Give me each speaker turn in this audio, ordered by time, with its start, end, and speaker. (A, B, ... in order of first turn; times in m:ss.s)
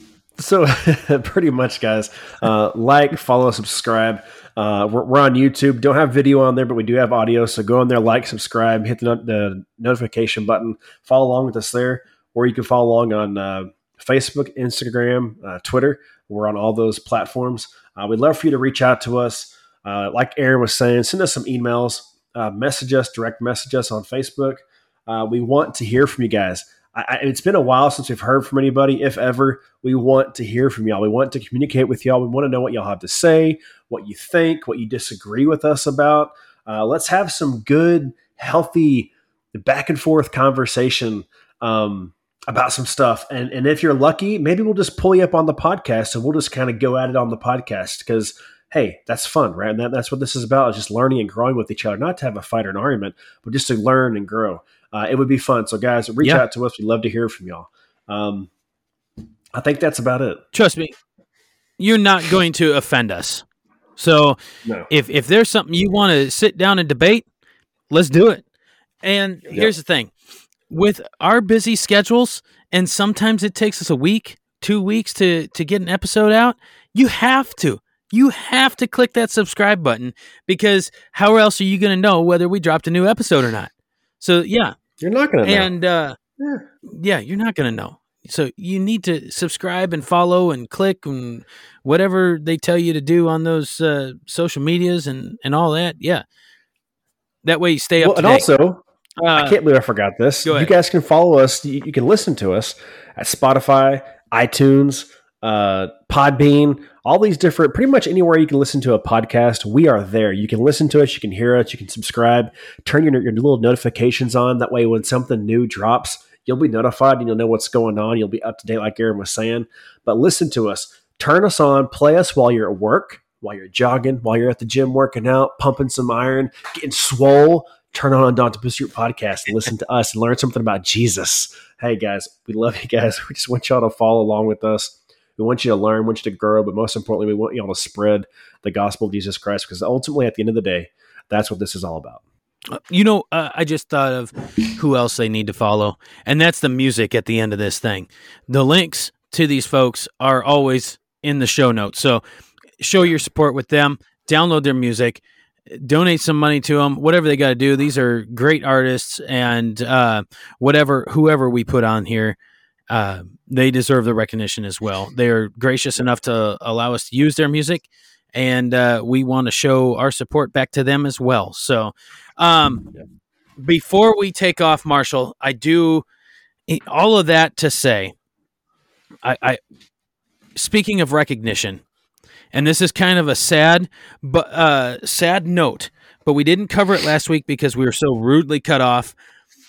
0:00.4-0:58.5 A
0:59.5-1:00.4 A
1:00.5-1:00.9 B
1:01.8-1:03.4 B
1:04.0-1:04.4 B
1:04.6-1:04.9 A
1:04.9-1:07.2 B
1:07.9-1:08.4 B
1:09.0-1:10.1 B
1:10.7-1:24.8 B
1:25.0-1:25.7 A
1:25.4-1:26.2 B
1:26.4-1:26.6 A
1:26.9-1:36.2 B
1:37.4-1:38.5 B
1:38.0-1:38.8 A
1:39.2-1:39.6 B
1:39.3-2:22.2 A
1:40.4-1:40.7 B
2:22.7-2:32.2 B
2:32.8-2:42.4 B
2:42.9-2:52.9 B
2:53.6-2:56.0 B
2:56.7-2:58.1 B
2:59.2-2:59.6 B
3:00.6-3:01.8 B
3:02.5-3:09.2 B